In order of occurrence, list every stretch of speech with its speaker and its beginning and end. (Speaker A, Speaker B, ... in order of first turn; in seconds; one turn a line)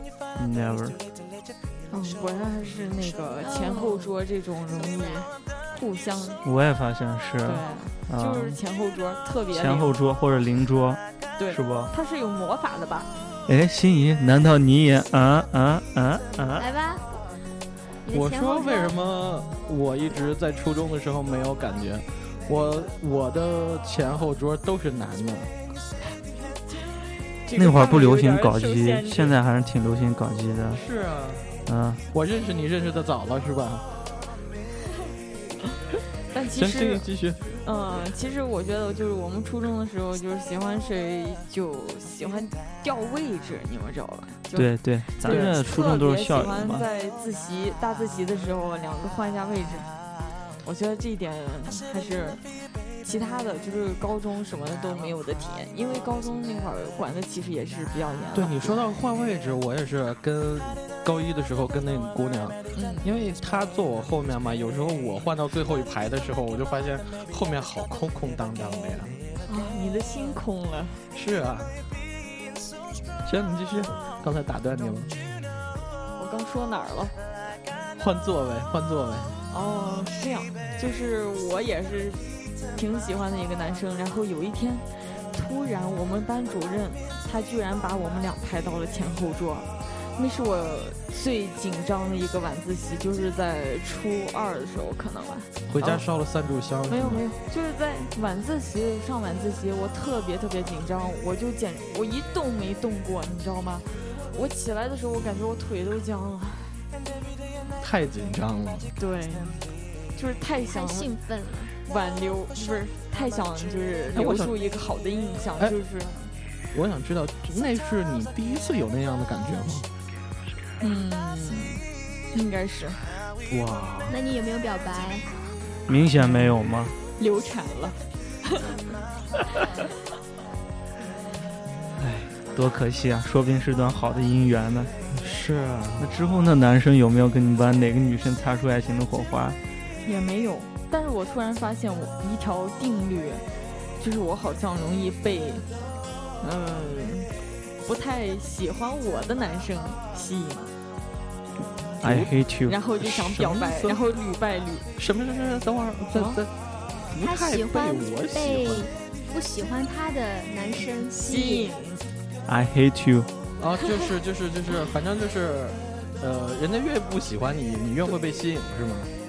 Speaker A: 0.4-1.0
Speaker B: 1.9-6.4
Speaker C: 3.4-4.1
Speaker A: 6.4-8.6
Speaker B: 7.5-9.9
Speaker A: 9.5-11.9
Speaker B: 11.4-13.1
Speaker A: 13.5-16.7
Speaker C: 16.6-17.1
Speaker C: 18.0-19.0
Speaker D: 18.1-25.5
Speaker B: 27.4-29.3
Speaker A: 27.6-30.8
Speaker D: 30.7-31.5
Speaker A: 31.7-32.0
Speaker D: 32.1-33.9
Speaker B: 36.3-37.1
Speaker D: 36.5-37.5
Speaker B: 37.6-49.9
Speaker A: 44.5-46.9
Speaker D: 45.2-45.6
Speaker B: 50.6-52.4
Speaker B: 53.0-58.8
Speaker D: 58.3-69.2
Speaker B: 62.8-63.1
Speaker B: 69.5-71.0
Speaker D: 71.1-71.8
Speaker D: 73.2-75.1
Speaker B: 76.2-77.2
Speaker D: 78.0-79.4
Speaker B: 79.5-96.0
Speaker D: 95.7-97.2
Speaker B: 96.9-106.8
Speaker D: 107.8-108.9
Speaker B: 109.0-111.1
Speaker C: 110.7-111.8
Speaker B: 111.8-116.3
Speaker D: 114.1-114.5
Speaker D: 116.7-119.9
Speaker B: 120.8-123.2
Speaker D: 123.5-124.2
Speaker C: 124.1-125.3
Speaker A: 125.9-127.0
Speaker B: 127.2-128.8
Speaker A: 132.0-134.9
Speaker D: 135.1-136.1
Speaker A: 136.0-139.6
Speaker B: 140.0-143.4
Speaker B: 144.0-145.7
Speaker B: 146.4-150.7
Speaker A: 152.0-152.8
Speaker D: 152.0-152.3
Speaker B: 152.7-154.9
Speaker D: 153.6-153.9
Speaker D: 155.0-156.5
Speaker B: 156.1-156.4
Speaker D: 157.1-158.9
Speaker C: 157.1-161.7
Speaker B: 161.2-162.1
Speaker A: 162.5-163.3
Speaker D: 163.6-169.1